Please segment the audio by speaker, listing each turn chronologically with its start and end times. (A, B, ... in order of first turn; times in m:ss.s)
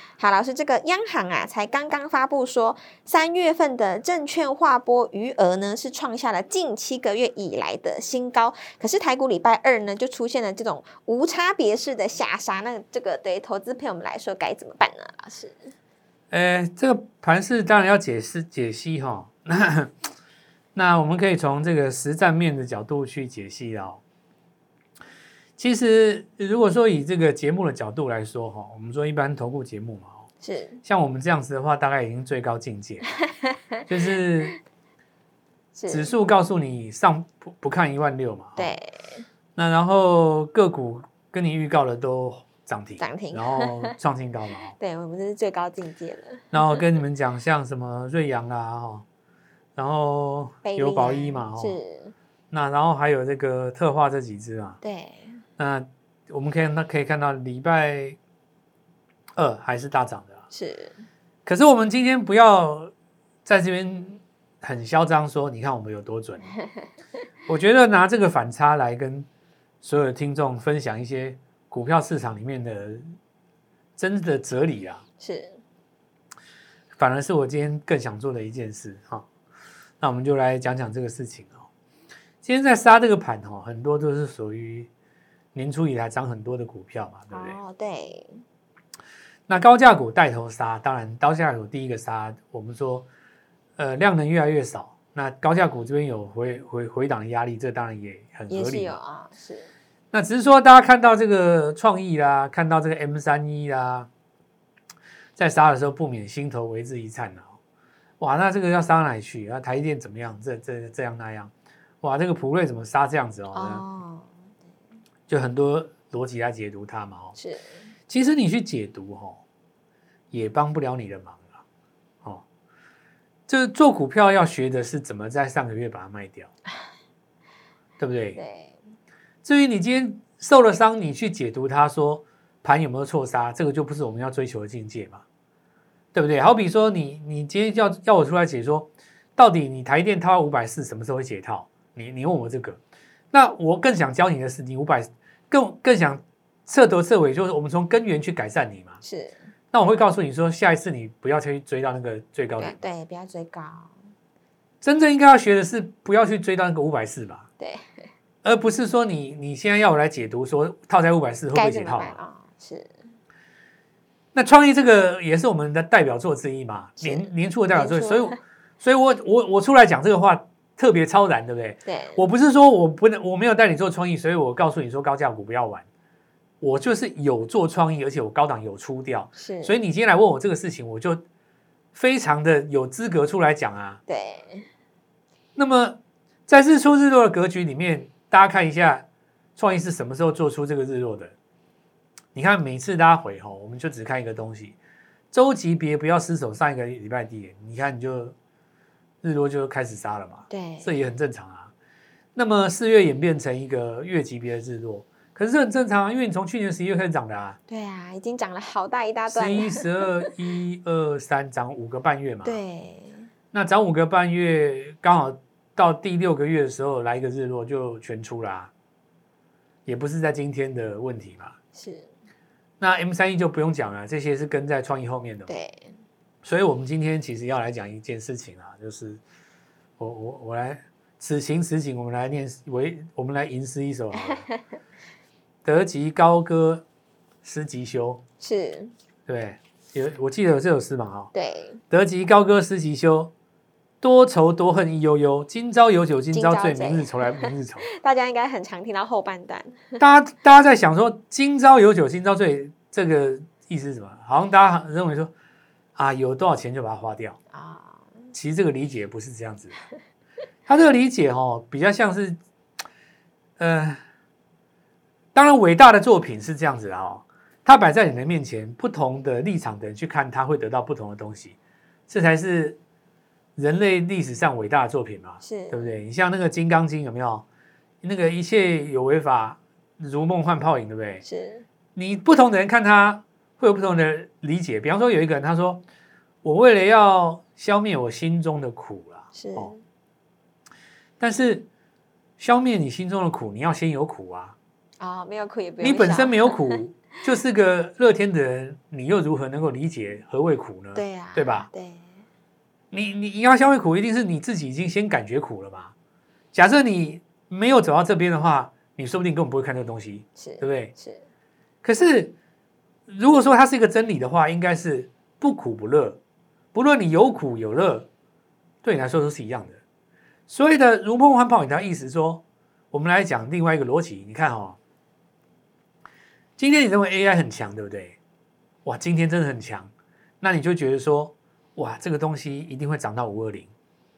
0:00.2-0:15.7 A
0:16.3-0:19.9 B
0:20.8-0:24.0 B
0:25.6-0:30.2 B
0:30.4-0:30.8 A
0:30.8-0:33.0 B
0:33.9-0:34.6 B
0:35.8-0:36.2 A
0:35.9-0:38.7 B
0:38.6-0:39.3 A
0:39.6-0:44.8 B
0:43.0-0:43.9 A
0:44.8-0:46.4 A
0:46.5-0:49.0 B
0:49.8-0:51.8 B
0:50.6-0:52.1 A
0:52.5-0:54.8 B
0:54.8-0:55.4 A
0:55.6-0:58.2 B
0:59.4-1:00.4 B
1:00.5-1:01.0 A
1:01.5-1:02.9 B
1:03.5-1:06.5 B
1:07.5-1:09.3 B
1:09.8-1:13.1 B
1:14.0-1:15.0 B
1:15.2-1:15.6 A
1:17.0-1:19.3 B
1:20.0-1:21.7 B
1:22.4-1:24.9 B
1:25.6-1:27.6 B
1:27.3-1:28.4 A
1:29.5-1:33.1 B
1:33.8-1:39.0 B
1:38.5-1:39.7 A
1:40.1-1:44.1 B
1:45.4-1:47.5 B
1:48.2-1:51.5 B
1:52.0-1:53.8 B
1:53.5-1:54.3 A
1:55.3-1:57.4 B
1:57.4-1:57.9 A
1:58.1-1:59.4 B
2:00.3-2:01.6 B
2:03.5-2:06.5 B
2:08.0-2:08.4 B
2:08.4-2:08.8 A
2:09.4-2:15.2 B
2:16.1-2:22.8 B
2:23.3-2:29.0 B
2:29.0-2:29.4 A
2:29.7-2:32.8 B
2:32.6-2:33.9 A
2:34.8-2:37.4 B
2:37.6-2:38.1 A
2:38.4-2:42.2 B
2:41.5-2:42.9 A
2:44.3-2:55.8 B
2:47.0-2:48.4 A
2:51.8-2:52.3 A
2:56.6-3:01.2 B
2:59.4-2:59.8 A
3:01.9-3:04.0 B
3:04.1-3:04.7 A
3:05.6-3:09.1 B
3:09.6-3:11.3 B
3:12.4-3:14.8 B
3:15.3-3:18.4 B
3:19.2-3:21.7 B
3:20.5-3:20.9 A
3:22.4-3:27.6 B
3:27.7-3:30.3 A
3:29.3-3:32.6 B
3:32.4-3:33.3 A
3:33.5-3:38.7 B
3:39.9-3:41.6 B
3:41.8-3:42.1 A
3:42.8-3:45.6 B
3:45.5-3:46.0 A
3:46.4-3:49.2 B
3:50.0-3:54.4 B
3:54.2-3:54.6 A
3:55.6-3:56.8 B
3:57.4-3:58.2 B
3:58.4-3:58.9 A
3:59.3-4:01.3 B
4:01.3-4:01.8 A
4:01.9-4:03.3 B
4:04.0-4:07.9 B
4:06.3-4:10.0 A
4:10.0-4:15.3 B
4:16.0-4:17.4 B
4:17.5-4:18.1 A
4:18.3-4:19.8 B
4:20.7-4:22.4 B
4:23.6-4:24.0 B
4:25.4-4:31.6 B
4:32.1-4:32.8 B
4:33.6-4:37.4 B
4:35.4-4:35.9 A
4:38.0-4:41.2 B
4:41.2-4:41.6 A
4:42.0-4:45.8 B
4:46.4-4:49.7 B
4:49.3-4:49.8 A
4:51.2-4:51.7 B
4:52.4-4:54.6 B
4:55.0-4:56.8 A
4:55.8-5:01.7 B
5:01.0-5:02.1 A
5:02.9-5:05.9 B
5:06.5-5:10.9 B
5:10.4-5:11.2 A
5:11.8-5:12.4 B
5:13.1-5:16.2 B
5:16.7-5:18.1 B
5:18.8-5:19.8 B
5:20.5-5:24.8 B
5:26.6-5:28.2 B
5:28.8-5:29.9 B
5:30.4-5:33.7 B